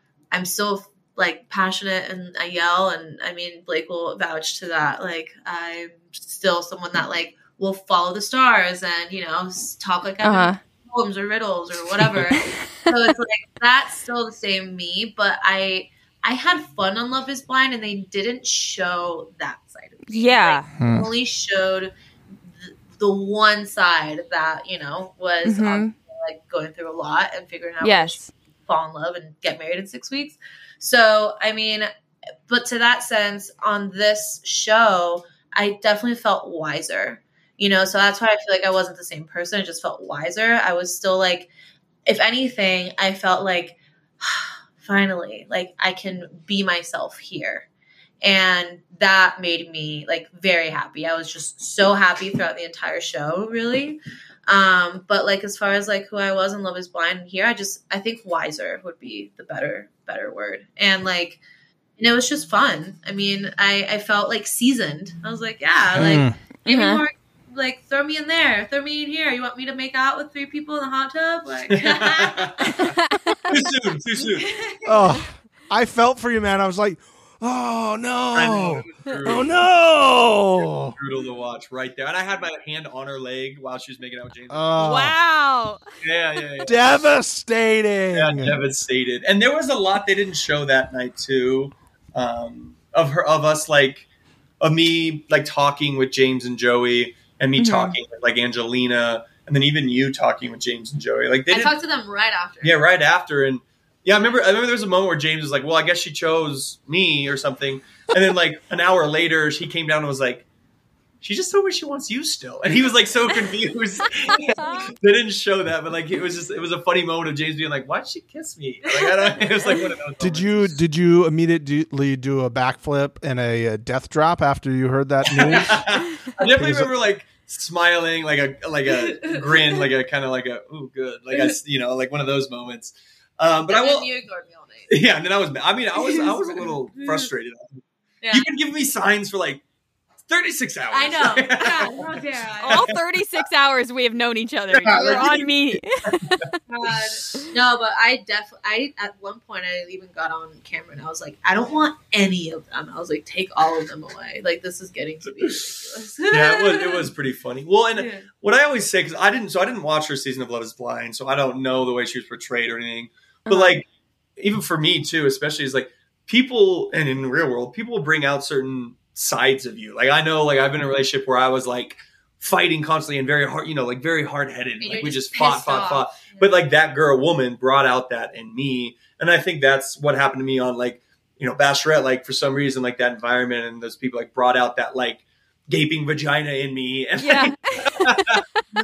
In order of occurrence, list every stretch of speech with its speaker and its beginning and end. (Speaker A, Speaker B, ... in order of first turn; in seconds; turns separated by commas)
Speaker A: 0.3-21.9, Speaker B: 10.2-10.6, Speaker B: 20.1-20.7, Speaker C: 20.8-21.1, Speaker A: 22.5-31.9, Speaker B: 25.4-25.9, Speaker B: 27.8-28.3, Speaker A: 32.5-41.5, Speaker A: 42.1-47.7, Speaker A: 48.2-61.4, Speaker A: 62.0-72.6, Speaker C: 66.0-66.3, Speaker B: 66.7-67.0, Speaker D: 71.7-72.9, Speaker D: 73.5-74.6, Speaker A: 74.4-75.1, Speaker C: 74.8-81.0, Speaker D: 78.3-79.6, Speaker D: 80.6-84.9, Speaker C: 84.5-85.2, Speaker B: 84.8-85.8, Speaker D: 86.0-87.0, Speaker C: 86.6-88.6, Speaker D: 88.1-94.1, Speaker D: 94.6-101.7, Speaker B: 97.6-98.0, Speaker A: 101.5-102.8, Speaker D: 102.6-110.5, Speaker D: 111.2-120.7, Speaker C: 120.2-126.9, Speaker D: 125.3-134.1, Speaker A: 129.2-129.6, Speaker A: 133.7-134.9, Speaker D: 134.9-139.6, Speaker A: 136.0-137.3, Speaker A: 138.2-138.5, Speaker D: 140.3-142.1, Speaker A: 140.9-142.9, Speaker B: 142.6-146.1, Speaker D: 142.7-142.9, Speaker D: 144.7-146.5, Speaker A: 144.9-145.3, Speaker A: 146.7-157.0, Speaker D: 156.3-163.9, Speaker A: 157.9-158.3, Speaker D: 164.4-188.4, Speaker A: 174.8-176.5, Speaker B: 187.2-188.6